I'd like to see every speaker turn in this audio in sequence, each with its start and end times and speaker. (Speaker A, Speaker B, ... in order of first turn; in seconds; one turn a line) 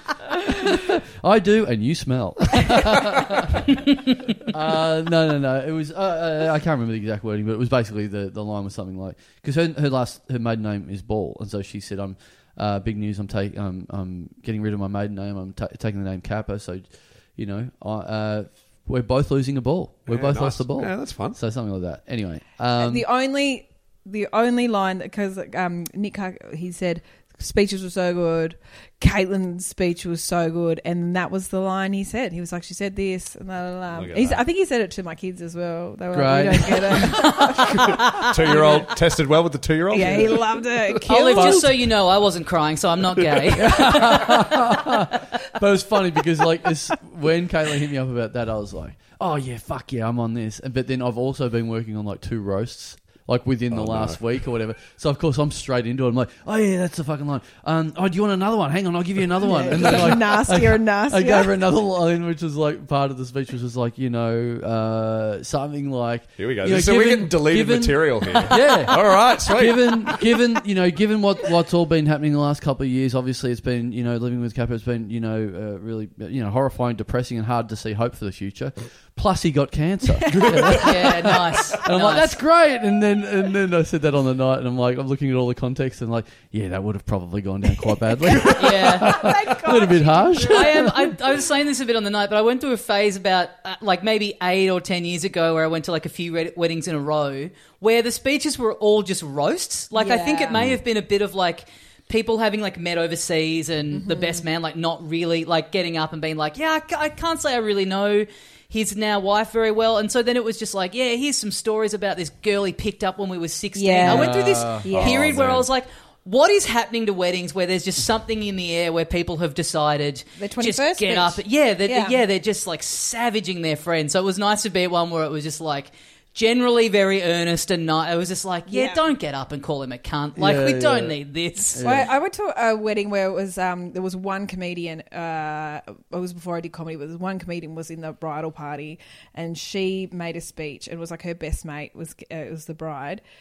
Speaker A: 0.5-3.8
Speaker A: 4.5-23.1
Speaker B: 20.1-21.4
Speaker C: 22.8-38.9
Speaker B: 33.9-34.4
Speaker A: 36.1-37.2
Speaker D: 37.0-38.3
Speaker B: 37.7-40.9
Speaker C: 39.9-41.7
Speaker A: 39.9-40.4
Speaker D: 41.1-44.5
Speaker A: 41.3-41.7
Speaker A: 43.5-91.1
Speaker B: 53.7-54.2
Speaker C: 59.4-61.5
Speaker B: 66.4-70.3
Speaker C: 80.2-80.8
Speaker B: 80.3-80.7
Speaker D: 80.7-82.4
Speaker C: 88.3-91.1
Speaker D: 88.5-89.2
Speaker D: 90.4-131.9
Speaker C: 100.0-100.6
Speaker C: 103.9-104.5
Speaker C: 113.8-115.2
Speaker A: 114.0-114.9
Speaker B: 114.9-115.7
Speaker C: 120.4-122.2
Speaker C: 128.7-129.0
Speaker A: 130.4-131.2
Speaker A: 131.7-132.1
Speaker C: 131.8-143.2